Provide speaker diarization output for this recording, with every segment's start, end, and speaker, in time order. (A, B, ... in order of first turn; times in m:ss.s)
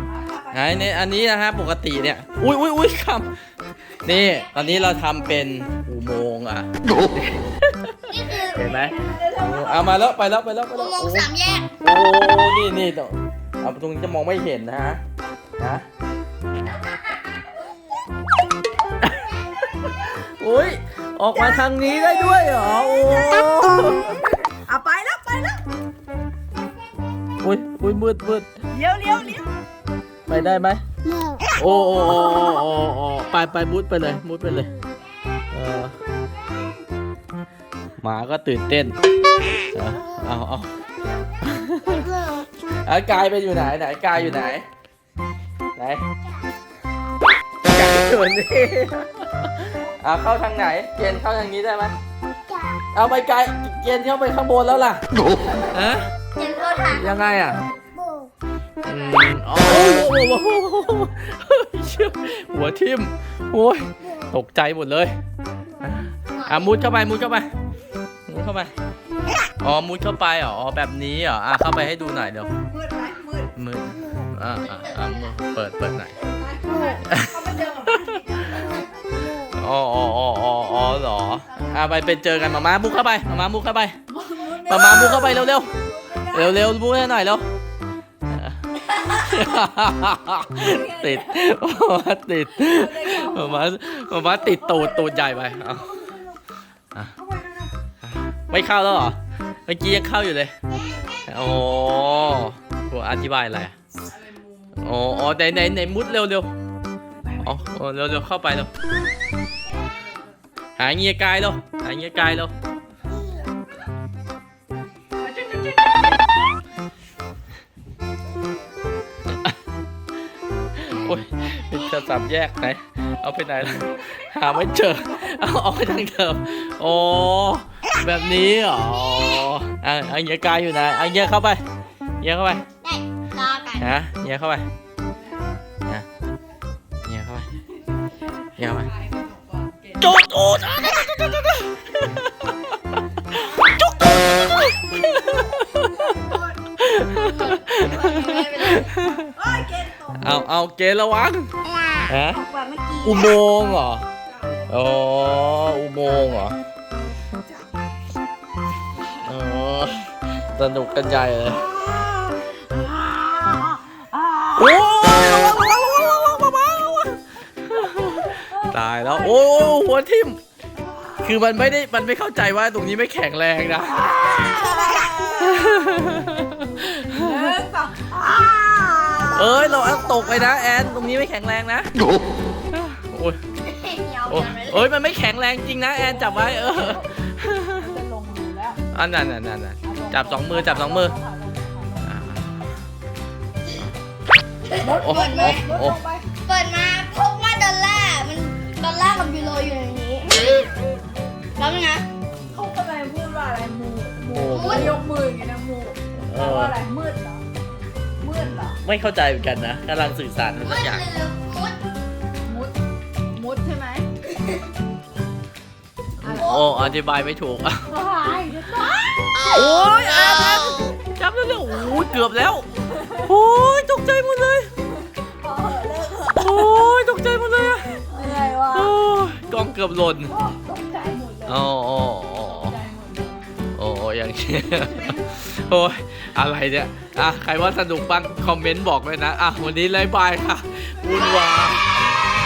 0:00.2-0:00.6 A
0:00.5-0:03.3 B
0:04.0-0:06.7 B
0:07.2-0:07.9 B
0:08.1-0:08.6 C
0:08.5-0:11.3 B
0:08.5-0:10.0 A
0:10.7-0:11.7 C
0:11.8-0:15.0 B
0:15.6-0:15.9 B
0:19.0-0:19.4 B
0:20.0-0:24.2 B
0:24.5-0:25.6 A
0:27.4-0:28.5 B
0:28.7-0:29.5 A
0:30.3-0:30.8 B
0:31.6-0:34.7 B
0:35.5-0:35.9 B
0:38.0-0:39.0 B
0:39.7-0:40.7 B
0:41.4-0:42.2 B
0:42.8-0:44.7 B
0:45.8-0:46.0 B
0:47.6-0:52.0 B
0:52.9-0:55.0 B
0:55.6-0:56.1 B
0:56.3-0:57.6 C
0:56.9-0:57.6 B
0:58.8-1:05.2 B
1:05.8-1:07.5 B
1:08.3-1:08.7 B
1:09.6-1:12.5 B
1:12.7-1:13.5 A
1:13.6-1:16.1 B
1:16.2-1:18.9 A
1:17.0-1:17.4 B
1:17.9-1:18.1 B
1:19.6-1:24.0 B
1:24.1-1:26.4 A
1:24.6-1:27.4 B
1:28.3-1:36.0 B
1:30.6-1:31.4 A
1:32.6-1:35.4 A
1:37.2-1:37.7 A
1:38.0-1:40.5 B
1:41.2-1:43.7 B
1:44.8-1:46.5 B
1:47.4-1:48.7 B
1:50.8-1:52.5 B
1:55.4-1:56.0 A
1:59.3-1:59.6 B
2:00.8-2:11.6 B
2:12.2-2:12.6 B
2:12.8-2:13.9 C
2:13.8-2:14.7 B
2:17.0-2:17.5 B
2:18.6-2:18.9 B
2:19.0-2:20.0 A
2:20.0-2:29.3 B
2:26.0-2:26.4 A
2:27.8-2:28.9 C
2:29.4-2:30.4 A
2:30.2-2:31.5 B
2:31.7-2:33.4 C
2:32.1-2:32.4 B
2:33.0-2:34.1 B
2:34.7-2:36.6 B
2:39.2-2:41.6 B
2:41.7-2:44.5 A
2:44.5-2:50.4 B
2:48.4-2:49.5 A
2:51.2-2:54.2 B
2:54.0-2:55.8 A
2:54.4-2:55.0 C
2:55.4-2:57.4 B
2:57.1-2:59.9 A
2:59.3-3:01.9 B
3:02.7-3:03.4 B
3:03.6-3:04.9 C
3:04.3-3:07.9 B
3:06.3-3:07.1 A
3:07.8-3:08.8 A
3:08.9-3:11.1 B
3:09.8-3:12.2 A
3:12.0-3:12.6 B
3:14.7-3:15.6 C
3:14.8-3:16.3 A
3:14.9-3:16.0 B
3:16.4-3:20.6 C
3:21.6-3:22.1 C
3:22.5-3:27.4 A
3:24.2-3:25.0 B
3:24.5-3:24.9 C
3:26.2-3:26.8 B
3:28.2-3:28.8 A
3:28.8-3:31.0 B
3:30.6-3:31.8 C
3:32.4-3:32.8 A
3:33.3-3:34.1 A
3:36.2-3:37.9 B
3:36.2-3:36.8 A
3:37.9-3:39.4 A
3:39.3-3:40.9 C
3:39.5-3:44.7 B
3:45.2-3:46.8 A
3:46.3-3:48.0 B
3:48.1-3:48.9 A
3:48.7-3:50.3 B
3:50.3-3:51.6 A
3:51.4-3:52.8 B
3:52.4-3:53.4 A
3:53.8-4:01.8 B